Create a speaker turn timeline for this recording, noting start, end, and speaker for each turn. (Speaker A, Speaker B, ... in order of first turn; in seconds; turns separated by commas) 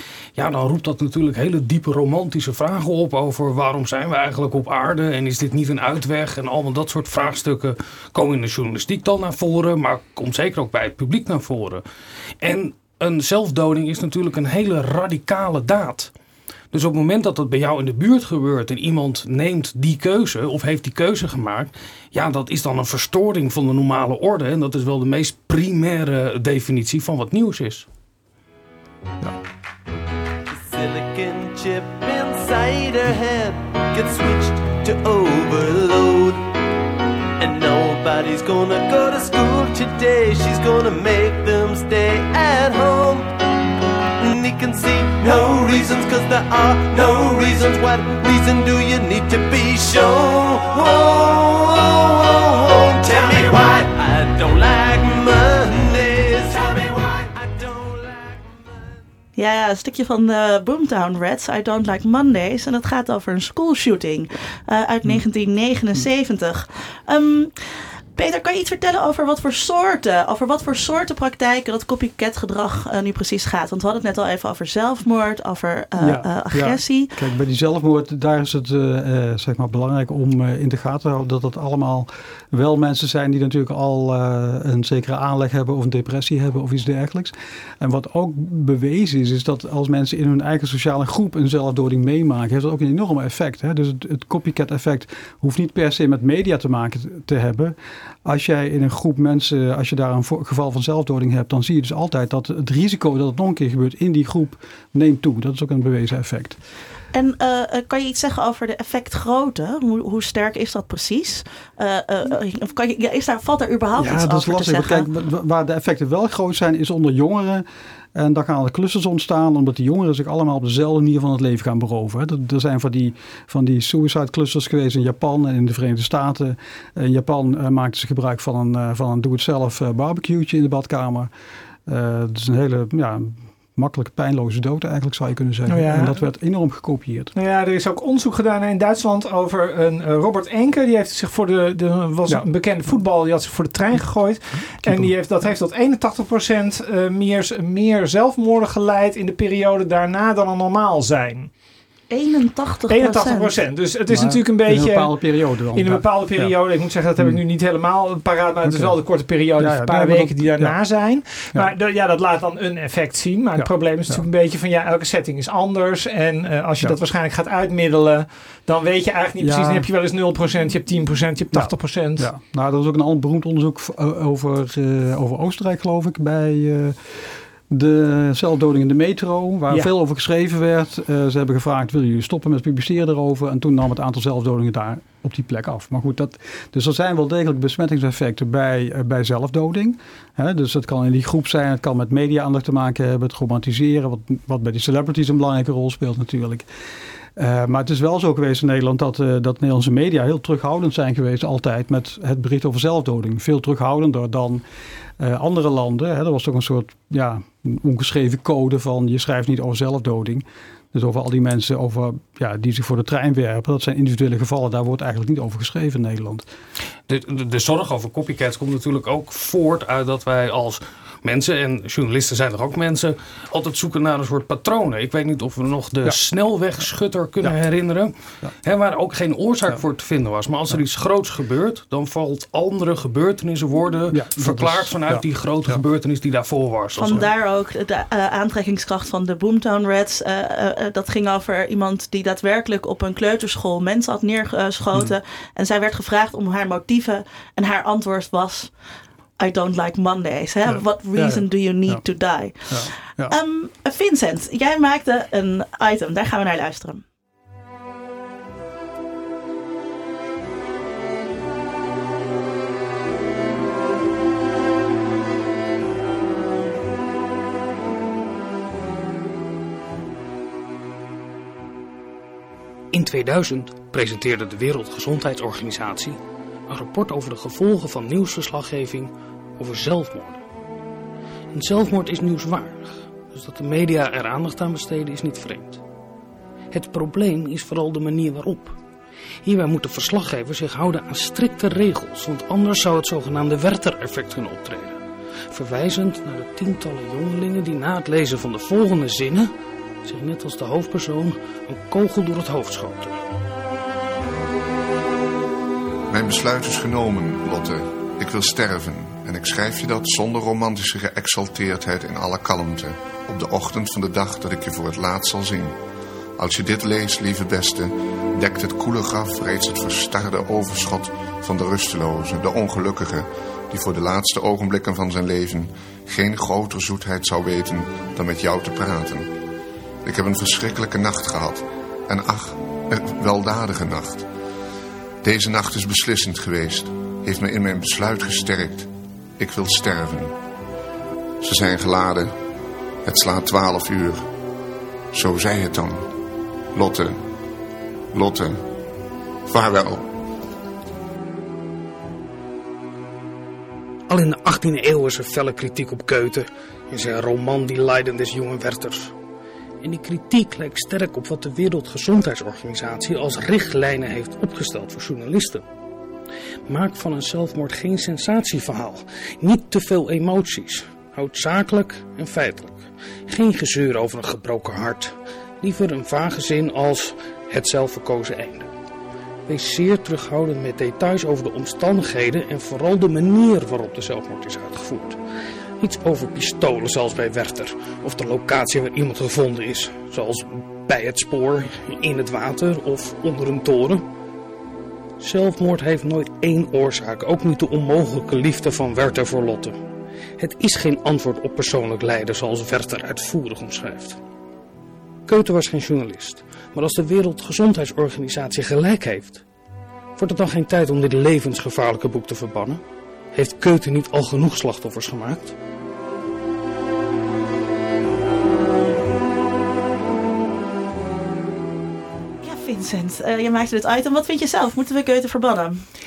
Speaker A: 0.4-11.8, Speaker A: 12.4-16.1, Speaker A: 16.7-27.9, Speaker B: 30.5-36.5, Speaker B: 37.4-43.3, Speaker B: 44.2-58.6, Speaker C: 59.4-67.5, Speaker C: 68.2-77.1, Speaker D: 76.0-106.6, Speaker C: 107.1-115.1, Speaker D: 114.0-131.3, Speaker D: 131.9-137.3, Speaker E: 135.7-136.2, Speaker E: 137.3-151.5, Speaker D: 144.8-145.1, Speaker C: 152.1-153.5, Speaker E: 152.9-172.3, Speaker D: 154.1-156.5, Speaker D: 158.7-159.0, Speaker D: 159.6-160.8, Speaker D: 163.6-164.2, Speaker D: 169.4-169.9, Speaker D: 171.5-177.0, Speaker D: 177.7-196.7, Speaker D: 197.4-204.6, Speaker D: 205.2-216.5, Speaker A: 217.1-237.3, Speaker D: 234.1-235.8, Speaker C: 237.0-248.7, Speaker C: 249.4-252.8, Speaker D: 250.7-252.0, Speaker D: 252.7-253.3, Speaker C: 253.3-257.0, Speaker A: 272.9-280.4, Speaker A: 281.5-285.8, Speaker A: 286.7-288.8, Speaker A: 289.4-299.5, Speaker A: 300.0-303.2, Speaker F: 306.1-315.8, Speaker F: 316.4-329.3, Speaker F: 330.0-334.3, Speaker F: 335.2-340.4, Speaker F: 341.4-342.3, Speaker F: 343.0-344.3, Speaker F: 345.1-346.1, Speaker F: 346.7-347.2, Speaker F: 348.1-348.6, Speaker F: 349.5-350.1, Speaker A: 354.1-359.1, Speaker A: 359.8-365.6, Speaker A: 366.7-378.7, Speaker A: 379.5-385.2, Speaker A: 385.8-394.1, Speaker A: 395.2-399.8, Speaker A: 400.4-404.2, Speaker A: 405.3-409.4, Speaker A: 410.2-412.8, Speaker A: 413.3-415.6, Speaker C: 422.4-425.8